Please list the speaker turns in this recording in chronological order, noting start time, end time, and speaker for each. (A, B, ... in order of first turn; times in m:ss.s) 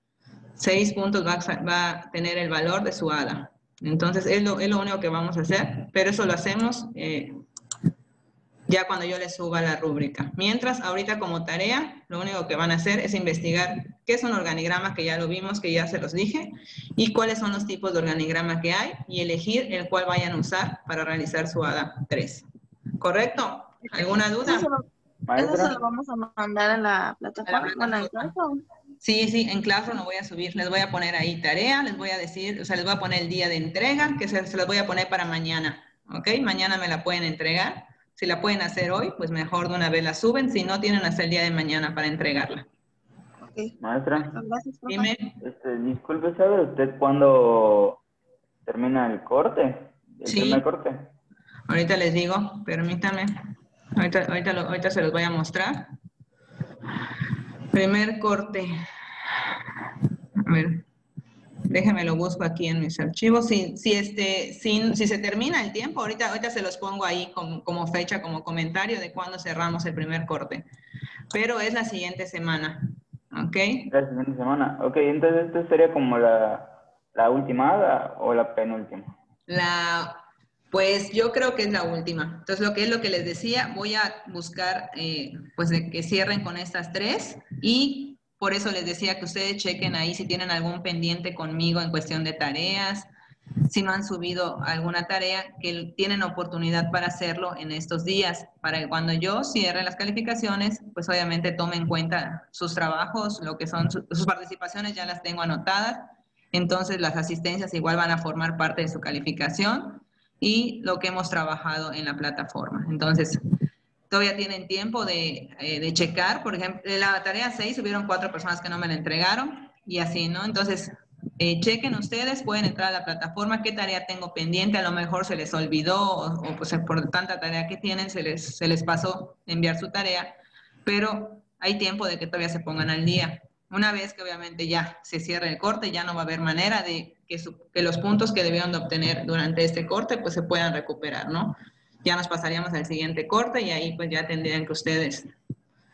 0:00.6-0:07.3 A
0:08.7-0:22.4 A
0:23.0-0:24.7 A
0:23.9-0:28.6 B
0:25.3-0:25.7 C
0:27.4-0:28.3 A
0:29.0-0:42.7 A
0:43.4-0:43.7 B
0:43.8-0:44.3 C
0:44.3-0:45.1 B
0:44.9-0:45.3 A
0:45.4-0:48.0 C
0:48.6-0:51.1 C
0:50.2-0:50.6 A
0:51.7-0:53.3 A
0:54.0-0:55.9 A
0:57.7-0:58.7 A
1:00.4-1:00.8 A
1:01.7-1:10.6 A
1:11.3-1:13.9 A
1:13.9-1:19.1 C
1:19.5-1:33.1 A
1:33.7-1:53.4 A
1:54.1-2:25.3 A